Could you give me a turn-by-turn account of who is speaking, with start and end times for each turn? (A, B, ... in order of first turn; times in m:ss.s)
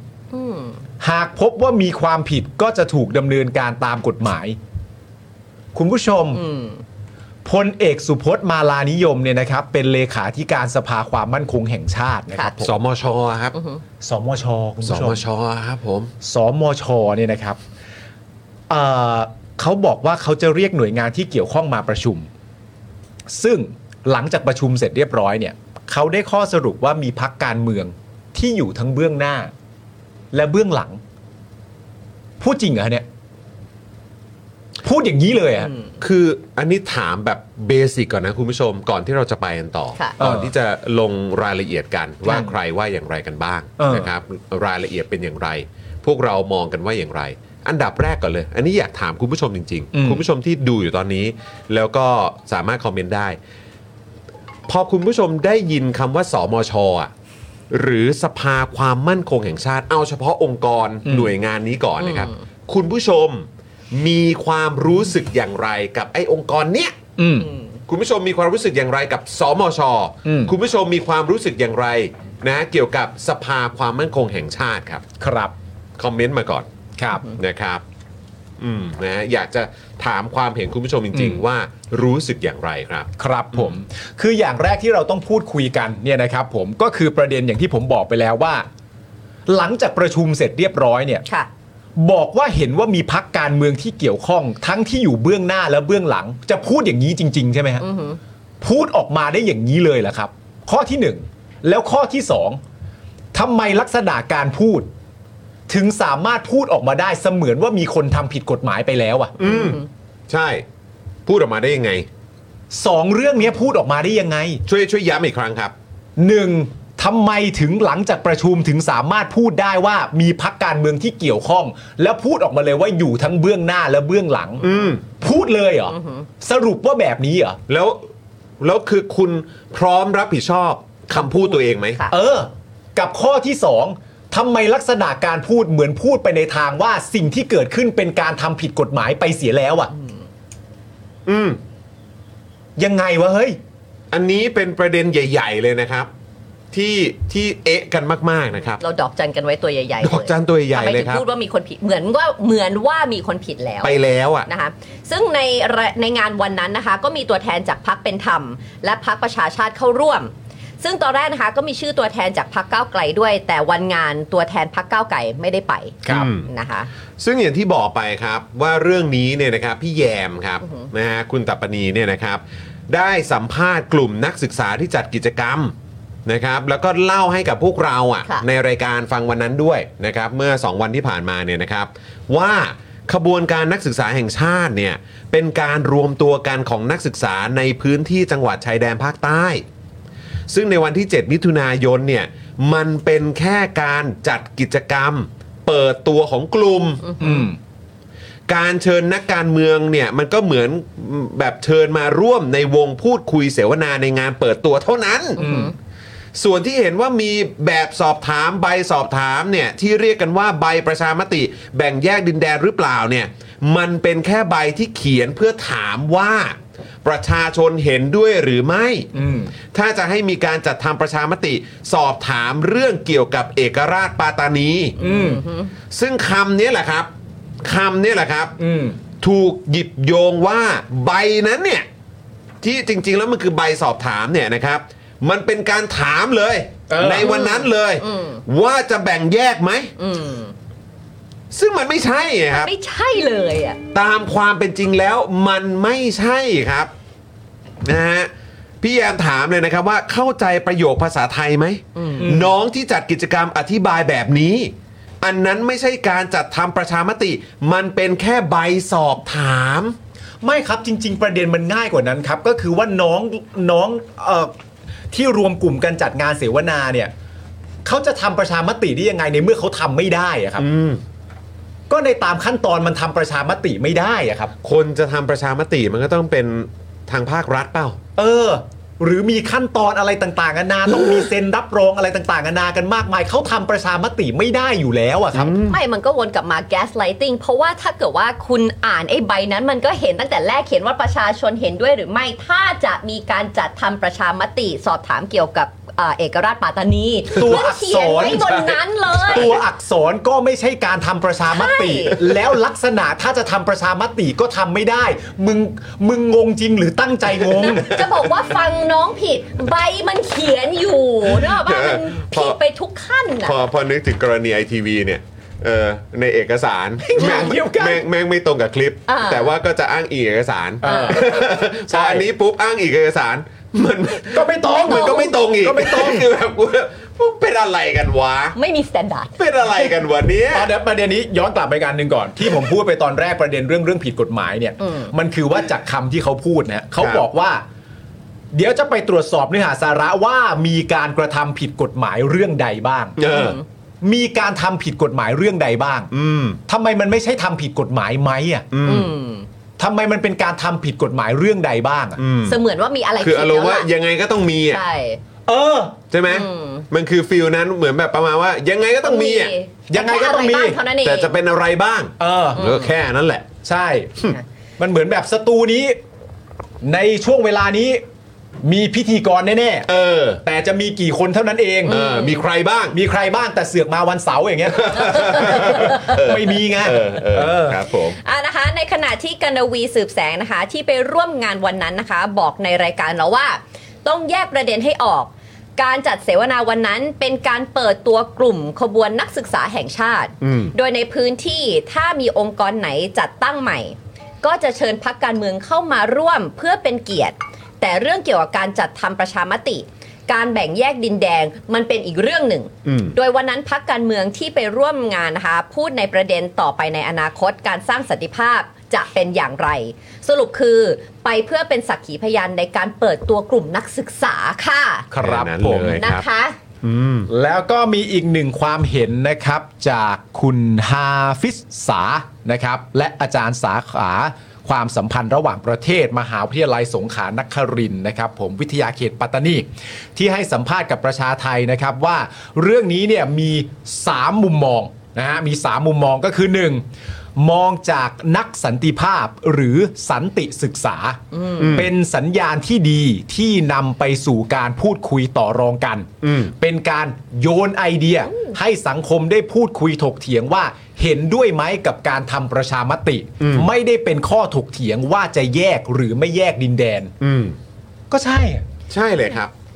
0:00.3-0:00.8 A
0:01.0-0:04.6 B
0:05.8-0:06.4 B
0:06.3-0:06.8 A
0:07.4-0:12.7 B
0:12.6-0:13.6 C
0:13.5-0:13.8 A
0:14.0-0:15.2 B
0:14.8-0:16.1 C
0:16.2-0:17.6 B
0:18.7-0:22.3 B
0:23.3-0:29.5 B
0:30.3-0:31.0 B
0:32.4-0:33.1 B
0:34.8-0:35.7 B
0:36.0-0:53.4 C
0:40.2-0:40.5 B
0:42.2-0:42.5 B
0:43.8-0:44.1 B
0:49.9-0:50.2 B
0:54.7-0:57.1 C
0:57.7-1:07.0 C
1:01.0-1:01.3 B
1:02.0-1:02.4 A
1:07.2-1:07.5 B
1:07.9-1:15.0 C
1:10.2-1:10.5 B
1:15.2-1:15.5 B
1:16.0-1:16.7 C
1:17.0-1:17.2 B
1:17.4-1:17.8 C
1:18.6-1:23.8 C
1:21.1-1:21.4 B
1:23.2-1:28.7 B
1:29.5-1:31.2 B
1:32.0-1:37.9 B
1:37.8-1:38.2 A
1:38.6-1:42.6 B
1:43.3-1:44.9 B
1:45.7-1:49.4 B
1:49.4-1:50.6 C
1:49.4-1:49.8 A
1:51.3-1:52.1 C
1:52.7-1:54.6 B
1:54.7-1:55.7 C
1:56.2-2:07.6 B
2:04.6-2:05.0 C
2:04.6-2:04.9 A
2:05.9-2:06.3 A
2:07.7-2:08.1 C
2:08.6-2:12.0 C
2:12.1-2:19.9 B
2:21.3-2:21.6 C
2:22.8-2:23.6 B
2:24.1-2:26.1 C
2:26.7-2:28.8 C
2:28.8-2:33.9 A
2:30.0-2:31.2 C
2:33.8-2:34.5 C
2:34.5-2:46.9 A
2:46.1-2:46.5 C
2:47.2-2:55.8 C
2:50.6-2:50.9 A
2:56.3-3:09.6 C
3:10.5-3:17.0 C
3:17.1-3:17.5 A
3:17.2-3:17.6 B
3:18.5-3:25.4 C
3:25.4-3:25.7 A
3:25.4-3:25.7 B
3:26.4-3:39.1 C
3:39.1-3:39.5 B
3:39.7-3:45.0 C
3:45.0-3:45.7 A
3:45.0-3:45.4 B
3:45.9-3:47.1 C
3:47.6-3:48.6 C
3:48.6-3:49.0 B
3:49.2-3:51.9 C
3:52.6-3:59.9 C
3:56.9-3:57.3 B
3:57.2-3:58.4 A
4:00.0-4:00.5 A
4:01.5-4:02.7 C
4:02.5-4:03.8 A
4:03.9-4:06.9 C
4:07.8-4:08.3 C
4:08.8-4:20.0 C
4:12.0-4:12.3 A
4:12.2-4:12.5 B
4:20.4-4:24.5 B
4:25.1-4:27.1 B
4:27.8-4:30.7 B
4:30.6-4:31.0 C
4:31.9-4:34.5 B
4:34.6-4:38.0 C
4:38.2-4:45.6 B
4:45.3-4:45.8 C
4:45.6-4:59.6 A
4:57.3-4:58.7 B
4:59.3-5:07.9 B
5:01.5-5:02.2 A
5:07.6-5:13.6 A
5:07.6-5:08.3 C
5:11.3-5:12.6 C
5:13.4-5:28.6 C
5:17.0-5:18.0 B
5:19.1-5:19.5 A
5:20.8-5:22.3 B
5:20.8-5:21.2 A
5:24.3-5:26.3 B
5:24.9-5:25.2 A
5:28.6-5:29.4 A
5:29.4-5:30.7 C
5:30.5-5:37.6 B
5:34.8-5:35.1 A
5:37.0-5:37.2 C
5:38.5-5:43.2 B
5:43.2-5:43.6 C
5:43.3-5:43.6 A
5:44.0-5:46.1 B
5:46.1-5:46.6 C
5:46.7-5:48.7 B
5:48.7-5:49.1 C
5:48.8-5:49.5 A
5:49.8-5:52.2 B
5:52.2-5:52.6 C
5:52.4-5:53.9 A
5:53.2-5:54.8 C
5:54.7-5:55.2 A
5:55.5-5:56.0 B
5:56.1-5:59.5 C
5:56.3-5:56.9 A
5:59.0-6:01.4 A
5:59.9-6:00.8 B
6:01.0-6:03.5 C
6:02.2-6:02.7 B
6:02.6-6:02.9 A
6:03.6-6:04.3 B
6:04.8-6:06.0 B
6:06.8-6:08.0 B
6:08.6-6:09.9 B
6:09.9-6:10.4 C
6:10.4-6:12.0 B
6:11.9-6:12.4 A
6:11.9-6:13.0 C
6:12.9-6:17.8 B
6:14.8-6:18.2 C
6:15.2-6:16.0 A
6:18.2-6:55.1 A
6:30.4-6:30.7 C
6:42.8-6:43.2 C
6:55.1-6:56.0 B
6:55.2-6:56.2 C
6:56.0-6:56.6 A
6:56.8-6:57.3 C
6:57.3-7:09.6 B
7:10.2-7:16.8 B
7:17.4-7:37.1 B
7:21.3-7:21.8 A
7:21.6-7:21.9 C
7:26.2-7:26.5 C
7:28.3-7:28.6 A
7:33.4-7:33.7 C
7:37.2-7:37.6 C
7:38.1-7:38.6 B
7:38.9-7:39.5 C